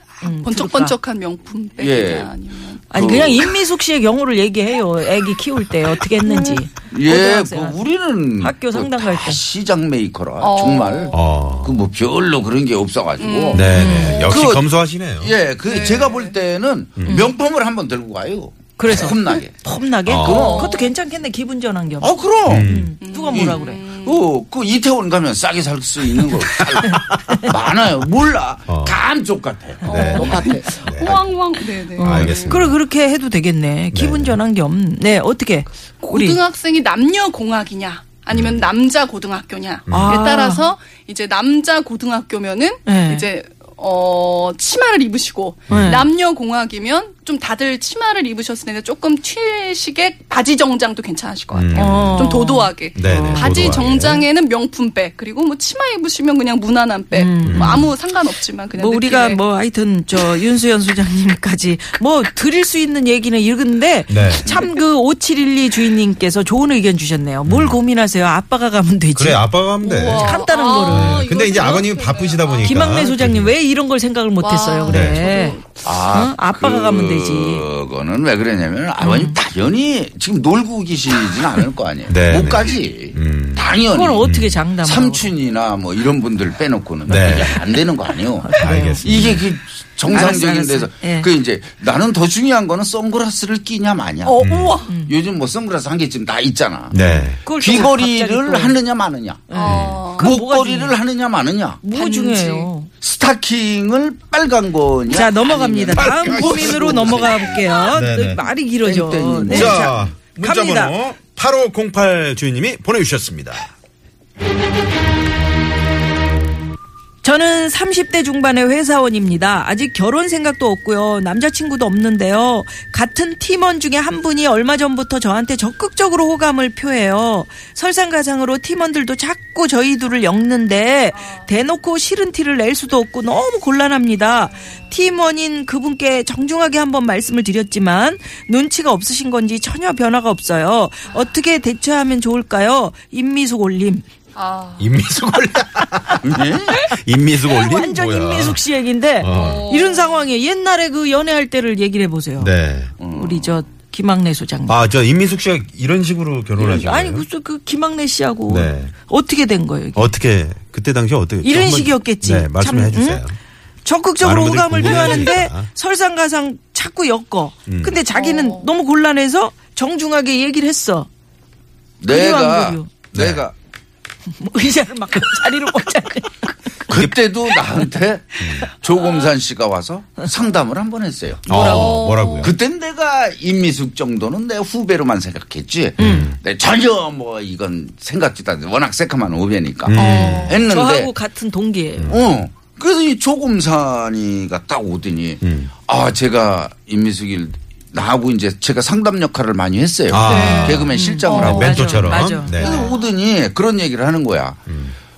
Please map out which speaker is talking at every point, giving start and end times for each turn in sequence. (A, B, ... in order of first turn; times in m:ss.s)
0:00.2-0:00.9 A
0:00.2-0:03.5 B
0:01.8-0:02.3 C
0:02.9-0:07.8 A
0:02.9-0:03.5 C
0:06.9-0:19.6 C
0:08.4-0:09.4 A
0:10.4-0:11.2 B
0:11.1-0:11.8 D
0:13.2-0:14.2 B
0:13.5-0:15.3 D
0:13.7-0:14.4 A
0:15.6-0:16.3 B
0:17.0-0:17.2 D
0:17.0-0:17.3 A
0:18.8-0:23.8 A
0:20.0-0:20.5 D
0:20.2-0:20.8 C
0:20.2-0:20.9 B
0:22.0-0:22.7 C
0:22.4-0:22.9 D
0:23.0-0:24.3 B
0:23.3-0:31.2 C
0:28.7-0:29.0 D
0:29.8-0:32.7 B
0:29.8-0:31.2 D
0:30.0-0:30.5 A
0:32.0-0:36.4 A
0:32.0-0:32.8 D
0:33.9-0:34.4 D
0:36.0-0:59.4 B
0:38.3-0:38.6 D
0:39.9-0:40.2 D
0:39.9-0:40.7 A
0:42.8-0:43.2 A
0:45.7-0:46.0 D
0:45.7-0:46.0 A
0:51.5-0:52.3 D
0:51.7-0:53.8 A
0:52.9-0:54.2 D
0:57.1-0:57.9 A
0:57.4-0:57.9 D
0:58.8-1:11.3 A
1:04.1-1:04.5 D
1:04.4-1:04.7 B
1:07.5-1:07.8 D
1:09.1-1:13.5 D
1:09.8-1:13.1 B
1:12.6-1:17.7 A
1:14.4-1:15.7 B
1:14.9-1:15.2 D
1:15.8-1:24.2 C
1:19.0-1:19.4 A
1:22.1-1:24.6 D
1:23.9-1:25.3 A
1:24.8-1:34.4 C
1:27.1-1:27.6 D
1:28.4-1:29.4 A
1:28.6-1:29.4 D
1:30.1-1:31.3 A
1:34.2-1:34.9 B
1:34.4-1:34.8 D
1:34.9-1:35.1 A
1:35.0-1:39.6 C
1:36.9-1:37.4 D
1:36.9-1:38.8 A
1:39.5-1:41.0 A
1:39.5-1:40.3 B
1:39.6-1:40.0 D
1:40.1-1:41.8 C
1:41.8-1:42.9 A
1:41.9-1:42.7 B
1:43.0-1:47.8 C
1:45.1-1:51.0 A
1:46.0-1:47.4 D
1:47.9-1:48.4 D
1:48.8-1:49.9 C
1:49.5-1:53.7 D
1:57.2-2:24.0 A
2:11.1-2:11.5 B
2:14.5-2:14.9 B
2:24.3-2:24.9 B
2:24.8-2:28.6 D
2:26.2-2:26.8 C
2:27.4-2:32.5 A
2:29.2-2:29.7 D
2:29.2-2:30.2 B
2:32.4-2:32.9 D
2:33.0-2:33.6 C
2:33.1-2:34.8 A
2:34.7-2:37.3 D
2:36.6-2:40.1 A
2:38.5-2:38.9 D
2:40.0-2:43.4 D
2:41.4-2:43.2 A
2:43.8-2:51.1 A
2:44.2-2:45.7 D
2:47.7-2:48.0 D
2:48.1-2:48.7 B
2:52.0-2:53.5 C
2:52.1-2:52.9 A
2:53.1-2:53.4 D
2:54.3-2:56.9 A
2:56.9-3:01.5 C
2:56.9-2:57.2 D
2:57.4-2:57.8 A
2:58.4-2:58.7 D
3:01.5-3:02.5 D
3:01.5-3:02.0 A
3:01.5-3:02.5 B
3:02.4-3:11.1 C
3:06.0-3:06.4 D
3:06.0-3:06.3 A
3:09.8-3:10.6 D
3:09.9-3:10.7 B
3:10.6-3:12.2 A
3:12.0-3:12.3 D
3:12.1-3:24.6 C
3:15.4-3:15.7 D
3:20.1-3:22.9 D
3:20.2-3:23.0 B
3:20.9-3:22.9 A
3:24.7-3:25.0 D